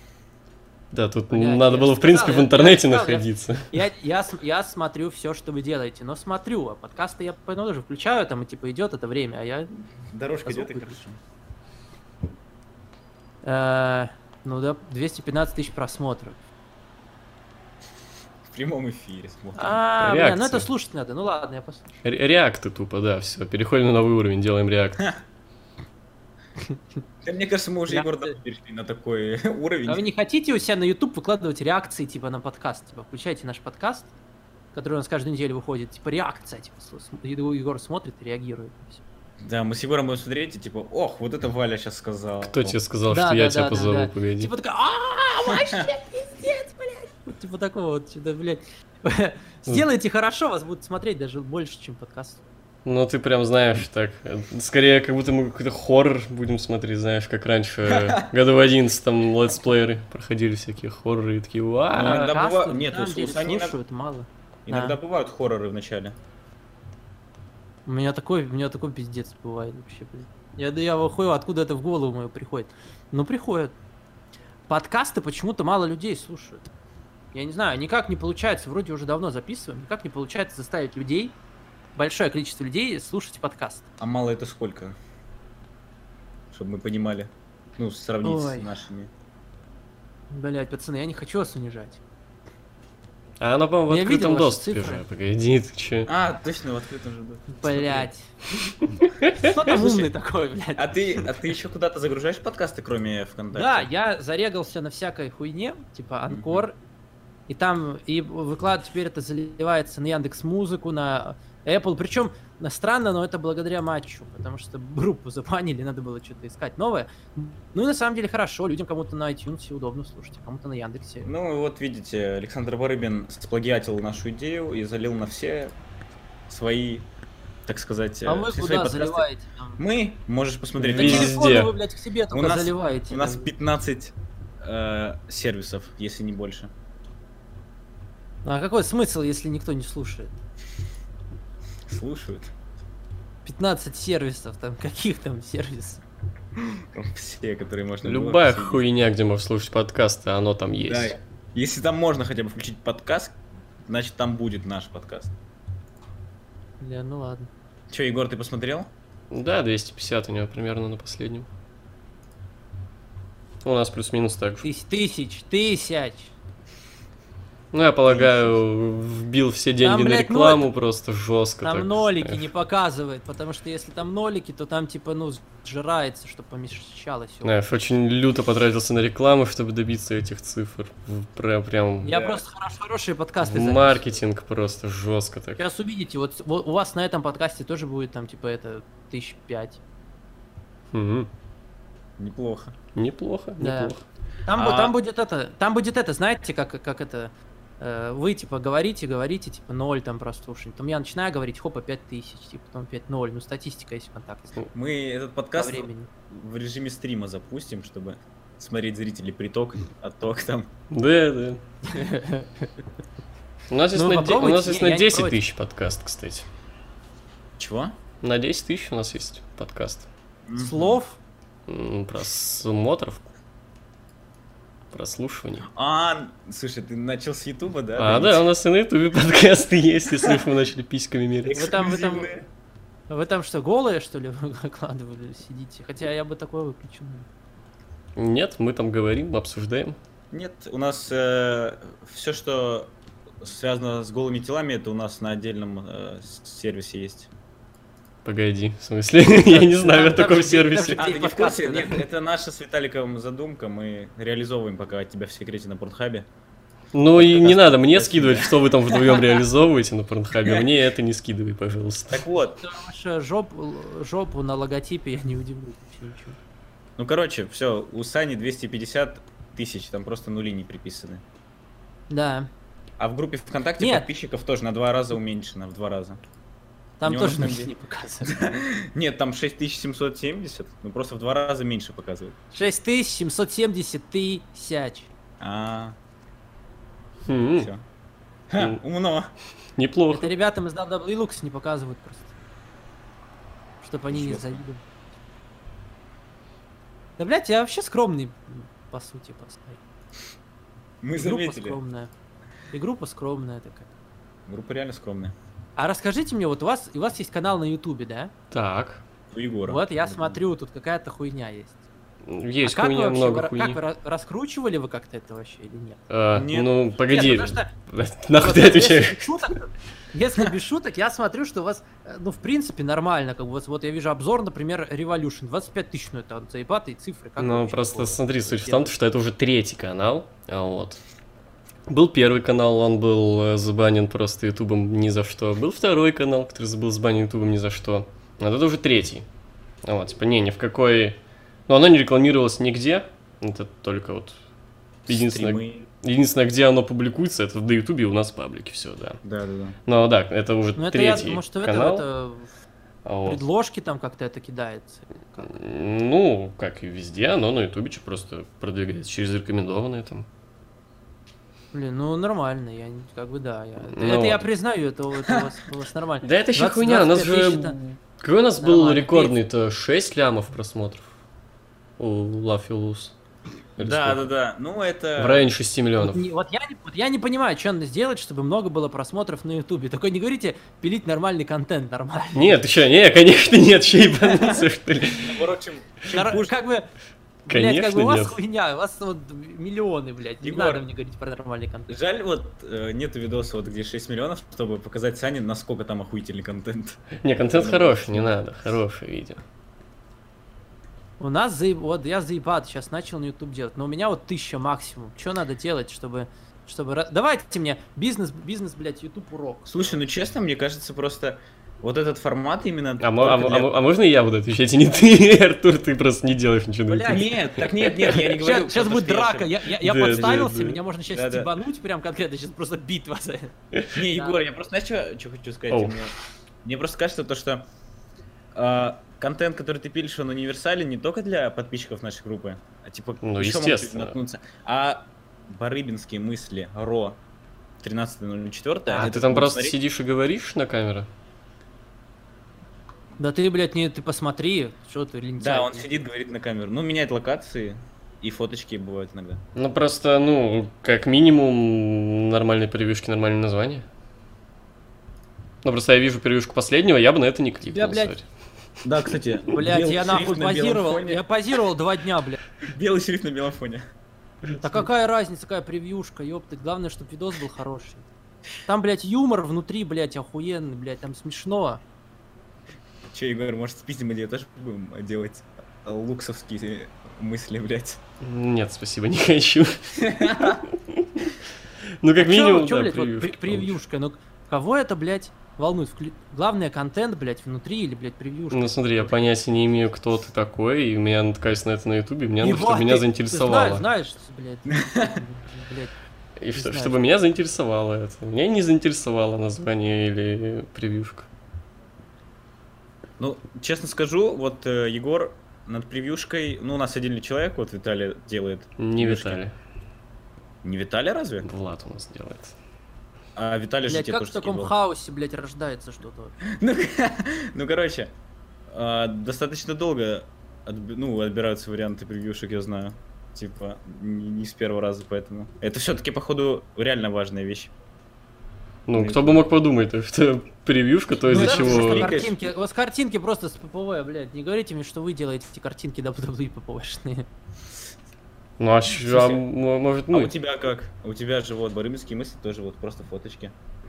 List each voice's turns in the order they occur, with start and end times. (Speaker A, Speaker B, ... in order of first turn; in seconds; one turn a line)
Speaker A: 0.9-3.7
Speaker B: 1.3-9.7
Speaker C: 10.1-11.2
Speaker B: 10.4-11.0
Speaker B: 13.4-16.4
Speaker C: 18.5-19.8
Speaker B: 19.6-22.0
Speaker A: 20.0-20.7
Speaker A: 22.0-25.0
Speaker C: 27.2-30.1
Speaker B: 27.9-28.4
Speaker B: 29.9-34.1
Speaker B: 34.7-39.0
Speaker C: 39.4-42.8
Speaker A: 42.4-44.5
Speaker B: 43.1-52.4
Speaker C: 45.5-45.9
Speaker A: 52.9-62.3
Speaker C: 57.9-58.3
Speaker C: 61.9-63.8
Speaker B: 61.9-65.0
Speaker C: 64.7-66.2
Speaker B: 67.9-73.8
Speaker B: 74.7-76.7
Speaker B: 77.3-81.4
Speaker B: 82.0-83.8
Speaker C: 84.0-85.0
Speaker C: 86.5-89.1
Speaker B: 88.2-88.7
Speaker B: 90.3-92.0
Speaker A: 93.4-96.1
Speaker B: 93.9-95.0
Speaker C: 96.1-98.1
Speaker B: 97.5-98.3
Speaker A: 99.0-99.4
Speaker B: 99.3-100.9
Speaker C: 99.6-100.1
Speaker C: 100.8-103.9
Speaker B: 103.5-106.8
Speaker C: 106.3-106.6
Speaker B: 107.5-121.3
Speaker C: 121.2-125.7
Speaker C: 126.5-127.1
Speaker C: 127.7-129.3
Speaker B: 128.3-129.8
Speaker C: 129.8-131.5
Speaker A: 130.8-131.7
Speaker B: 130.9-133.5
Speaker C: 132.3-136.7
Speaker B: 138.4-140.3
Speaker C: 141.9-142.5
Speaker B: 143.4-146.0
Speaker C: 146.6-148.8
Speaker A: 148.0-151.2
Speaker C: 150.8-155.3
Speaker B: 156.8-157.5
Speaker C: 157.9-158.9
Speaker A: 159.3-161.5
Speaker A: 163.6-164.7
Speaker B: 164.6-166.3
Speaker A: 167.7-172.4
Speaker C: 168.1-168.6
Speaker B: 169.8-170.7
Speaker B: 171.6-177.6
Speaker A: 177.4-182.1
Speaker B: 182.0-184.1
Speaker C: 182.1-182.4
Speaker A: 183.4-185.6
Speaker B: 185.6-189.8
Speaker A: 190.9-191.3
Speaker C: 192.2-192.7
Speaker A: 192.9-194.0
Speaker B: 193.6-193.9
Speaker B: 194.5-204.6
Speaker C: 194.5-194.9
Speaker C: 204.7-210.7
Speaker B: 205.6-206.1
Speaker A: 210.9-211.6
Speaker B: 211.9-212.7
Speaker A: 213.7-216.5
Speaker B: 213.9-215.4
Speaker C: 217.6-218.0
Speaker A: 218.2-220.1
Speaker C: 220.5-221.0
Speaker B: 220.6-221.2
Speaker A: 221.7-223.3
Speaker A: 224.9-225.7
Speaker C: 225.7-228.5
Speaker A: 228.0-231.6
Speaker C: 231.4-232.5
Speaker B: 231.5-232.3
Speaker B: 233.1-237.3
Speaker A: 238.2-240.0
Speaker C: 240.3-247.3
Speaker A: 248.2-251.1
Speaker B: 249.4-252.0
Speaker C: 250.9-256.3
Speaker A: 256.9-262.2
Speaker C: 257.1-259.3
Speaker C: 260.4-260.7
Speaker C: 262.1-262.6
Speaker B: 262.6-266.4
Speaker C: 267.0-271.2
Speaker B: 272.1-272.5
Speaker C: 273.0-276.2
Speaker B: 273.8-274.1
Speaker B: 277.0-278.5
Speaker C: 277.0-277.7
Speaker C: 278.2-282.4
Speaker B: 282.5-285.1
Speaker C: 285.4-286.0
Speaker A: 287.3-287.7
Speaker C: 287.6-287.8
Speaker C: 288.5-289.3
Speaker A: 289.8-290.3
Speaker B: 290.1-292.3
Speaker B: 293.8-294.8
Speaker C: 294.1-294.6
Speaker B: 297.2-299.8
Speaker C: 301.0-301.8
Speaker B: 301.2-302.1
Speaker B: 302.7-303.9
Speaker C: 304.5-305.4
Speaker B: 305.8-308.3
Speaker A: 308.5-309.0
Speaker C: 309.3-310.4
Speaker B: 309.7-311.8
Speaker A: 312.3-313.8
Speaker B: 312.6-316.0
Speaker A: 316.1-319.4
Speaker C: 316.3-316.7
Speaker B: 317.1-317.7
Speaker B: 318.4-328.9
Speaker A: 327.4-331.0
Speaker A: 331.9-339.3
Speaker A: 339.8-344.4
Speaker C: 345.1-345.9
Speaker A: 345.1-349.2
Speaker C: 349.2-349.8
Speaker A: 349.9-352.1
Speaker B: 350.8-352.5
Speaker A: 353.1-353.4
Speaker B: 353.2-355.5
Speaker A: 355.4-360.3
Speaker B: 361.7-367.8
Speaker A: 363.9-364.5
Speaker A: 366.2-371.1
Speaker B: 368.6-369.4
Speaker A: 372.0-373.1
Speaker A: 373.8-374.3
Speaker C: 373.8-375.5
Speaker A: 375.2-376.2
Speaker B: 376.0-382.6
Speaker A: 382.3-385.4
Speaker C: 384.3-386.5
Speaker B: 386.1-386.9
Speaker B: 387.5-391.9
Speaker A: 387.5-388.4
Speaker C: 390.4-390.8
Speaker C: 391.9-398.3
Speaker A: 397.2-399.4
Speaker B: 401.2-410.0
Speaker C: 409.7-413.8
Speaker A: 413.0-417.5
Speaker B: 416.9-423.5
Speaker C: 417.1-419.6
Speaker A: 419.8-420.8
Speaker C: 420.1-420.4
Speaker C: 421.1-421.5
Speaker C: 423.9-427.7
Speaker B: 424.1-424.4
Speaker A: 425.7-426.0
Speaker C: 428.5-437.2
Speaker A: 433.2-434.1
Speaker C: 437.8-439.8
Speaker A: 438.9-441.1
Speaker B: 443.2-445.9
Speaker C: 445.4-449.4
Speaker A: 449.6-453.9
Speaker A: 455.6-458.2
Speaker B: 457.7-458.1
Speaker C: 458.8-461.2
Speaker B: 459.5-462.4
Speaker C: 462.6-463.9
Speaker B: 464.6-468.1
Speaker B: 468.6-471.8
Speaker C: 473.1-478.0
Speaker A: 478.2-481.3
Speaker C: 480.0-480.6
Speaker A: 482.0-483.8
Speaker B: 482.2-489.3
Speaker A: 488.5-493.9
Speaker B: 492.4-495.9
Speaker C: 494.7-495.2
Speaker A: 496.4-501.3
Speaker B: 496.6-497.1
Speaker C: 503.2-509.4
Speaker A: 508.8-509.5
Speaker C: 510.6-511.5
Speaker A: 511.4-512.5
Speaker C: 513.4-514.7
Speaker B: 513.9-516.4
Speaker C: 516.4-518.1
Speaker C: 518.7-527.7
Speaker A: 528.9-532.2
Speaker C: 528.9-529.5
Speaker C: 531.2-532.4
Speaker B: 531.3-537.3
Speaker A: 538.6-540.3
Speaker B: 539.0-539.4
Speaker C: 540.1-543.5